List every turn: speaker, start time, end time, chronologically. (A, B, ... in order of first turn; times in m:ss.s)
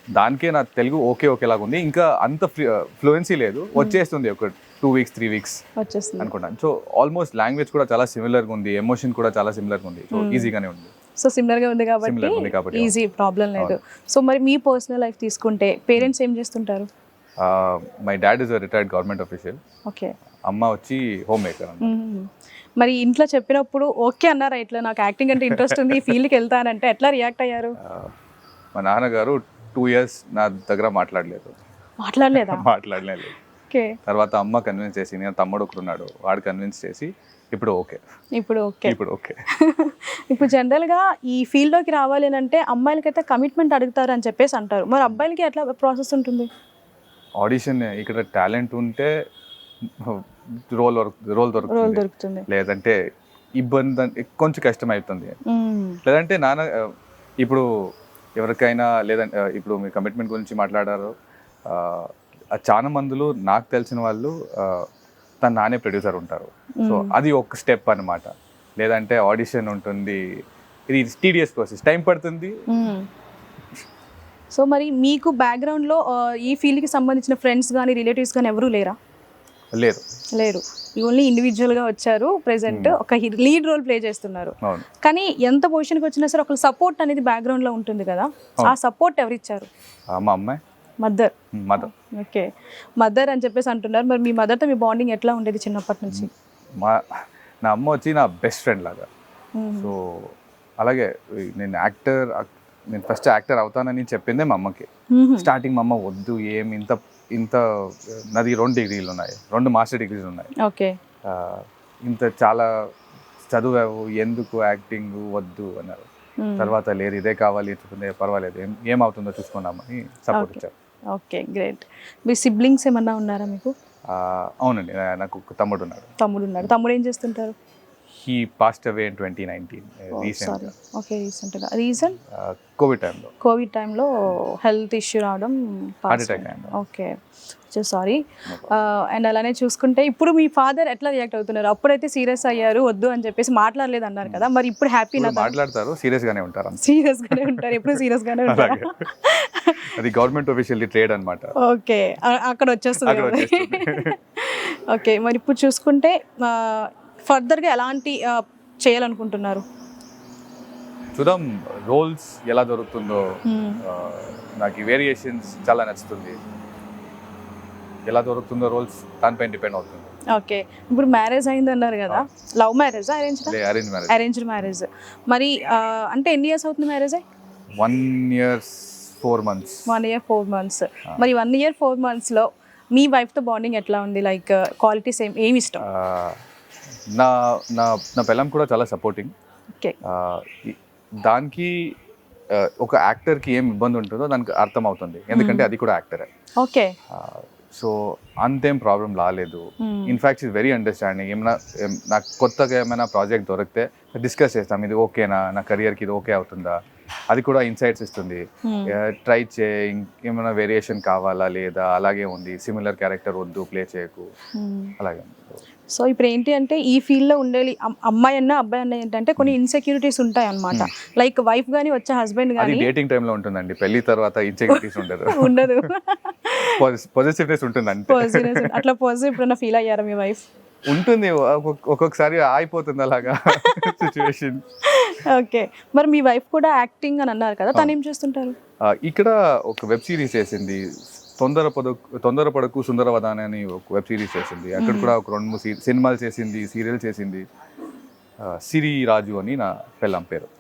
0:00.2-0:05.6 A
0:05.8-0:06.3 B
0:06.2-0:10.9 A
0:10.1-0:10.5 B
0:11.2-0:16.9 B
0:12.0-0:12.9 A
0:17.4-0:19.6 A
0:19.9-0:20.1 B
0:20.5-0:21.9 A
0:21.8-0:22.3 B
0:22.8-0:27.8 B
0:25.4-0:26.2 A
0:27.8-0:28.1 A
0:28.8-0:31.6 A
0:32.0-0:32.6 B
0:32.4-0:33.4 A
0:33.7-0:34.0 B
0:34.1-0:38.0 A
0:38.4-0:39.0 B
0:38.8-0:39.4 A
0:39.6-0:46.5 B
0:47.4-0:49.1 A
0:49.8-0:53.0 A
0:51.7-0:52.5 B
0:53.6-0:55.4 A
0:55.5-0:56.0 B
0:56.0-0:56.9 A
0:57.4-0:57.7 A
0:58.4-1:01.1 A
1:01.7-1:04.8 A
1:05.4-1:10.2 A
1:06.8-1:07.1 B
1:10.9-1:12.5 A
1:12.7-1:13.1 B
1:14.5-1:19.0 B
1:19.7-1:20.0 A
1:20.3-1:29.7 B
1:22.7-1:23.0 A
1:24.6-1:24.9 A
1:30.2-1:30.6 A
1:31.0-1:32.5 B
1:31.6-1:31.9 A
1:33.0-1:36.3 B
1:37.6-1:39.1 A
1:39.6-1:39.9 B
1:39.8-1:44.9 A
1:45.1-1:45.5 B
1:45.4-1:50.5 A
1:50.6-1:51.0 B
1:51.2-1:52.7 A
1:53.5-1:56.1 A
1:56.4-1:56.8 B
1:56.6-2:00.7 A
2:00.3-2:00.6 B
2:01.1-2:03.7 B
2:04.1-2:06.1 A
2:06.2-2:07.6 B
2:08.1-2:10.7 A
2:10.1-2:12.2 B
2:12.3-2:13.3 A
2:13.4-2:17.2 B
2:16.1-2:16.8 A
2:17.7-2:25.5 B
2:18.5-2:18.7 A
2:25.2-2:29.0 A
2:26.8-2:29.9 B
2:29.9-2:31.5 A
2:31.6-2:39.6 B
2:33.0-2:34.2 A
2:41.1-2:46.4 A
2:43.5-2:43.8 B
2:48.1-2:50.1 A
2:50.3-2:53.6 B
2:53.4-2:54.2 A
2:54.1-2:57.2 B
2:57.8-2:59.9 A
2:59.9-3:05.8 B
3:05.8-3:06.4 A
3:07.1-3:09.3 A
3:10.0-3:11.9 A
3:12.5-3:16.3 A
3:15.3-3:15.7 B
3:16.6-3:17.0 B
3:17.1-3:26.8 A
3:19.8-3:20.2 B
3:27.3-3:34.3 A
3:28.6-3:28.9 B
3:34.6-3:34.9 B
3:35.0-3:35.6 A
3:35.9-3:42.9 B
3:42.6-3:45.9 A
3:44.7-3:46.8 B
3:46.8-3:48.9 A
3:48.1-3:50.4 B
3:50.9-3:54.6 A
3:53.5-3:54.2 B
3:54.8-3:58.6 B
3:58.8-4:07.4 A
4:04.8-4:05.1 B
4:08.4-4:10.5 A